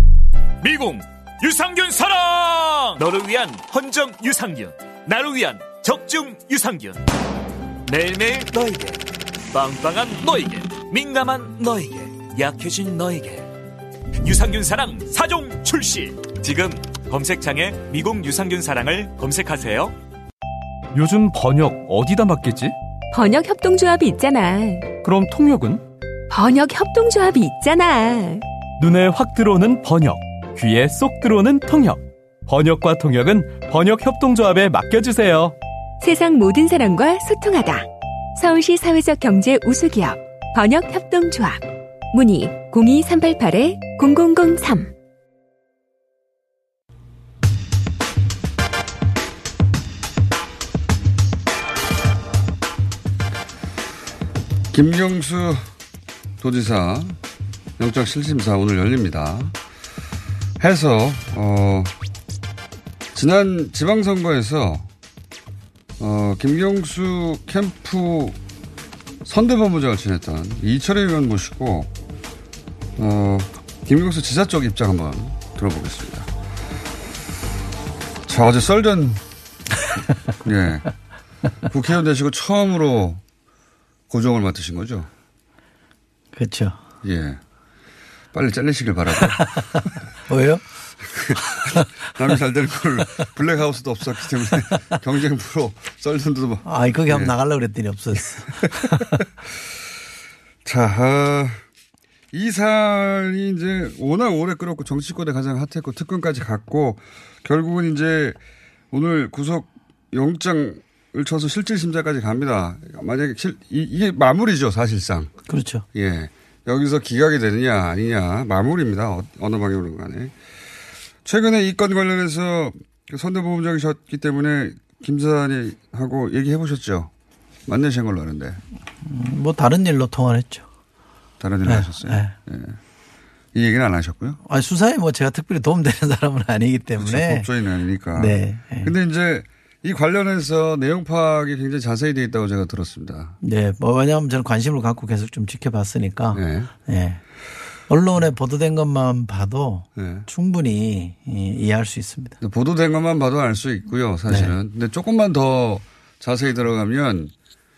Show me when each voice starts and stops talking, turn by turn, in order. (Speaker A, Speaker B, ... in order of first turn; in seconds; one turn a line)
Speaker A: 0.6-7.0
Speaker A: 7.8-9.0
Speaker A: 9.5-13.4
Speaker A: 14.2-19.9
Speaker B: 20.9-22.7
Speaker C: 23.1-24.9
Speaker B: 25.0-25.8
Speaker C: 26.3-28.4
Speaker B: 28.8-35.5
Speaker C: 36.0-44.9
Speaker D: 54.7-55.6
Speaker D: 56.4-57.2
Speaker D: 57.8-59.5
Speaker D: 60.6-61.9
Speaker D: 63.1-64.9
Speaker D: 66.0-68.4
Speaker D: 69.2-71.9
Speaker D: 73.0-76.3
Speaker D: 78.3-79.2
Speaker D: 80.4-80.9
Speaker D: 81.7-83.2
Speaker D: 84.1-85.1
Speaker E: 86.3-86.8
Speaker D: 87.0-87.4
Speaker D: 88.3-89.5
Speaker E: 89.3-90.6
Speaker D: 91.0-97.3
Speaker E: 91.3-92.3
Speaker E: 96.6-99.2
Speaker D: 98.6-99.2
Speaker D: 100.6-101.6
Speaker D: 102.3-108.4
Speaker D: 108.9-115.3
Speaker E: 115.5-115.8
Speaker D: 115.9-120.3
Speaker D: 121.2-127.1
Speaker D: 127.7-128.6
Speaker E: 129.0-130.6
Speaker D: 131.4-132.8
Speaker E: 131.6-132.3
Speaker D: 133.5-134.4
Speaker E: 134.4-137.5
Speaker D: 137.0-143.4
Speaker E: 138.1-138.9
Speaker E: 143.4-147.2
Speaker D: 146.3-146.7
Speaker E: 147.9-152.3
Speaker D: 149.9-150.3
Speaker D: 152.4-157.3
Speaker E: 154.3-154.5